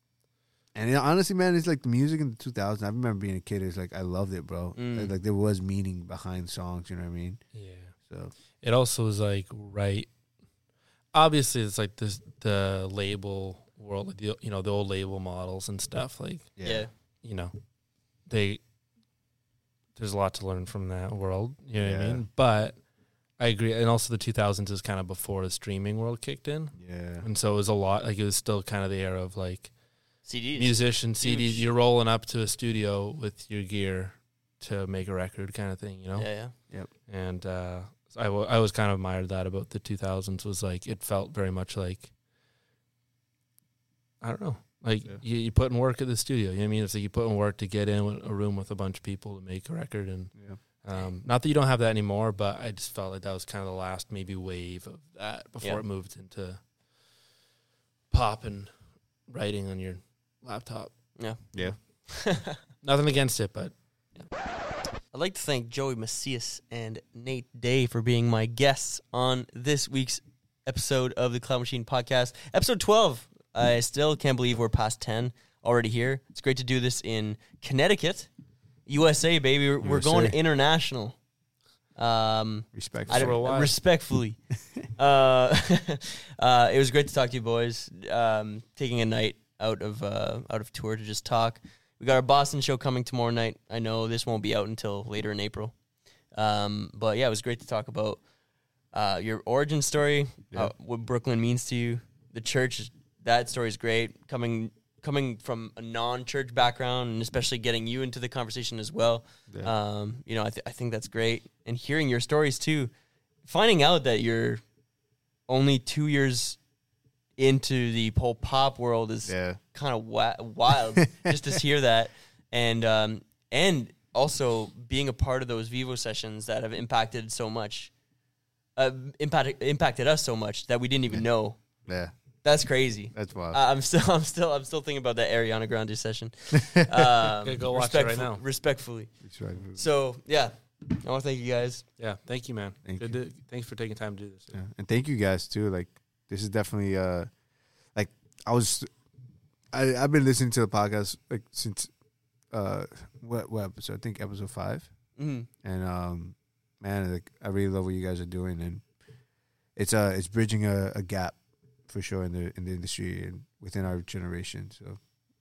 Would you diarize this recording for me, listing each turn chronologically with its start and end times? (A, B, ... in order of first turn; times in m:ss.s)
0:00.7-0:08.3 A
0:04.8-0:05.1 B
0:07.5-0:08.0 C
0:08.5-0:10.1 C
0:11.1-0:17.6 C
0:16.6-0:16.9 A
0:16.6-0:16.9 B
0:18.2-0:18.6 C
0:20.0-0:42.1 C
0:21.8-0:22.3 A
0:26.8-0:27.3 A
0:30.2-0:31.7 B
0:36.2-0:36.6 B
0:44.2-0:56.7 C
0:50.3-0:50.6 A
0:58.1-1:01.2 C
1:01.2-1:02.6 B
1:01.5-1:01.8 A
1:02.8-1:04.2 C
1:05.0-1:18.3 B
1:18.9-1:21.2 B
1:19.8-1:20.4 A
1:22.0-1:35.8 B
1:22.7-1:23.5 A
1:23.1-1:23.8 C
1:36.3-1:38.3 B
1:38.9-1:52.9 B
1:53.4-1:54.6 B
1:55.5-1:56.6 B
1:57.4-2:07.9 B
1:59.3-1:59.6 A
2:08.8-2:21.9 B
2:11.1-2:12.1 A
2:13.1-2:13.6 A
2:17.4-2:18.4 C
2:19.2-2:19.8 A
2:22.0-2:24.6 C
2:22.8-2:23.2 A
2:24.5-2:27.4 A
2:27.9-2:28.9 A
2:29.7-2:31.9 A
2:32.5-2:38.9 A
2:35.2-2:35.5 B
2:39.8-2:45.0 A